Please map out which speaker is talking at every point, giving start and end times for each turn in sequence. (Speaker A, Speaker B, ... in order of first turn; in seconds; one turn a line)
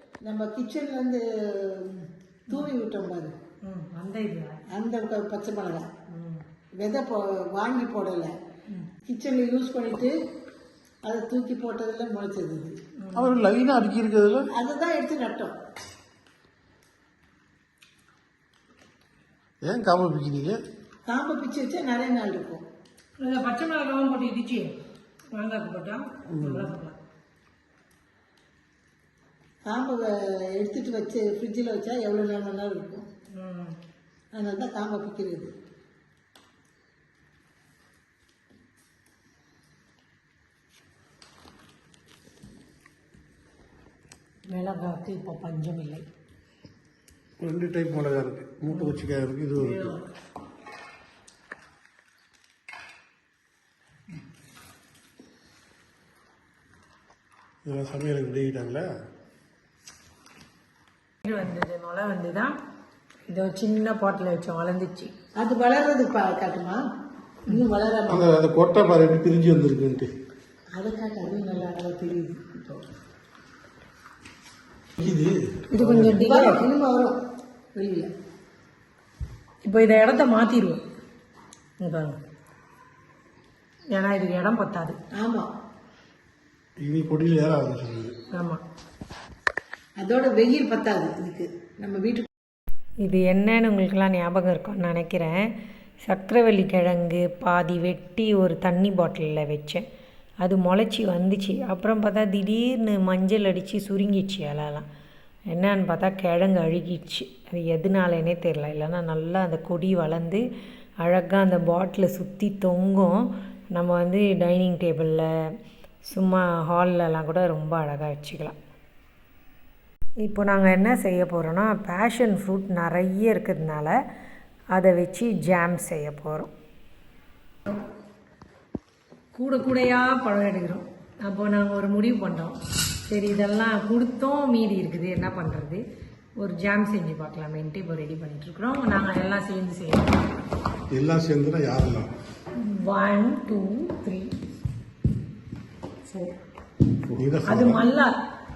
Speaker A: 0.2-3.3
Speaker B: 3.6-4.6
Speaker A: 4.7-5.9
Speaker B: 6.1-6.4
Speaker A: 6.8-8.3
Speaker A: 9.1-10.2
Speaker A: 11.0-12.8
Speaker B: 13.0-13.4
Speaker C: 13.2-14.5
Speaker A: 14.5-15.6
Speaker C: 19.6-20.6
Speaker A: 21.1-22.6
Speaker B: 23.2-24.8
Speaker B: 25.3-27.0
Speaker C: 26.3-26.7
Speaker A: 29.7-33.1
Speaker B: 33.3-33.8
Speaker A: 34.3-35.5
Speaker B: 44.5-46.0
Speaker C: 47.4-50.0
Speaker C: 57.6-58.9
Speaker B: 61.2-62.6
Speaker B: 63.3-65.1
Speaker A: 65.4-66.8
Speaker A: 67.5-68.3
Speaker C: 68.1-70.1
Speaker A: 70.7-72.5
Speaker C: 75.0-76.2
Speaker B: 75.7-76.7
Speaker A: 76.1-77.2
Speaker A: 77.8-78.1
Speaker B: 79.7-80.8
Speaker B: 81.8-82.2
Speaker B: 83.9-85.0
Speaker A: 85.2-85.5
Speaker C: 86.8-88.2
Speaker B: 88.3-88.6
Speaker A: 90.0-92.3
Speaker B: 93.0-95.5
Speaker B: 96.0-99.8
Speaker B: 100.4-104.9
Speaker B: 105.5-110.5
Speaker B: 111.0-115.3
Speaker B: 116.0-118.6
Speaker B: 120.2-124.0
Speaker B: 124.7-126.5
Speaker B: 129.3-135.8
Speaker B: 136.4-140.2
Speaker C: 140.9-142.1
Speaker B: 142.6-144.3
Speaker B: 146.1-146.3
Speaker C: 147.2-147.8
Speaker B: 147.5-148.2